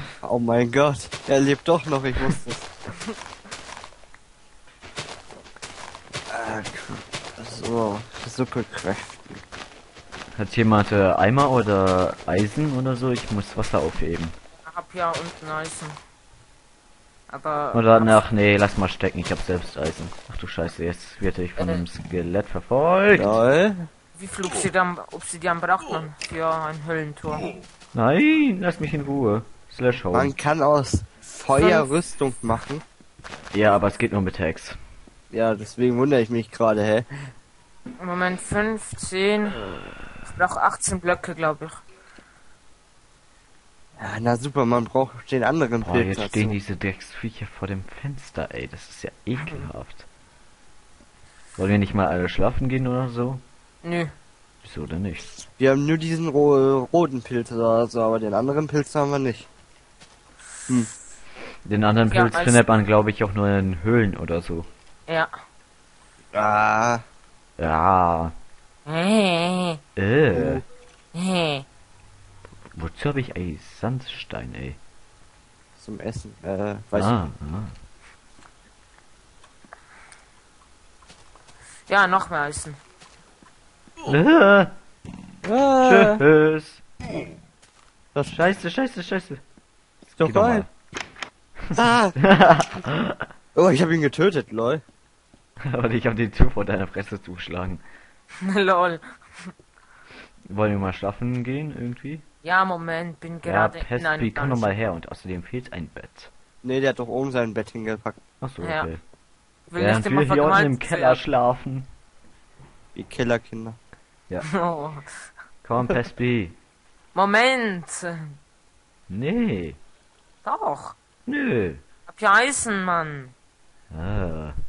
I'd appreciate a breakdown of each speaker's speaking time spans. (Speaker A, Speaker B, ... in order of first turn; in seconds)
Speaker A: 0.2-2.8, 6.3-9.4, 23.1-23.9, 30.1-32.8, 35.3-37.1, 44.0-46.6, 55.6-59.5, 66.3-67.0, 70.3-70.6, 75.8-77.2, 85.4-86.2, 90.2-90.7, 91.7-92.2, 93.5-94.8, 106.6-108.2, 112.9-113.8
Speaker B: 10.4-14.4, 17.7-23.4, 27.9-30.3, 33.5-34.8, 45.8-50.0, 51.6-53.4, 54.6-55.4, 61.6-64.7, 67.6-68.3, 70.0-70.6, 72.7-74.8, 76.9-77.7, 84.0-84.8, 85.8-86.8, 88.1-89.4, 90.2-90.7, 91.7-93.2, 95.7-97.8, 100.5-102.2, 103.4-106.3, 108.4-109.0, 109.8-111.9, 115.6-116.6, 119.1-119.8, 121.2-121.8, 123.9-124.5
Speaker C: 14.6-16.0, 17.3-18.2, 21.6-21.8, 24.1-27.4, 31.5-31.9, 38.0-39.6, 40.3-41.8, 49.4-49.6, 53.8-54.1, 62.1-62.7, 68.8-69.8, 71.1-71.6, 81.9-82.8, 98.4-99.5, 102.4-104.8, 108.6-108.9, 109.7-111.2, 114.5-115.1, 117.1-118.2, 120.4-121.0, 122.1-123.3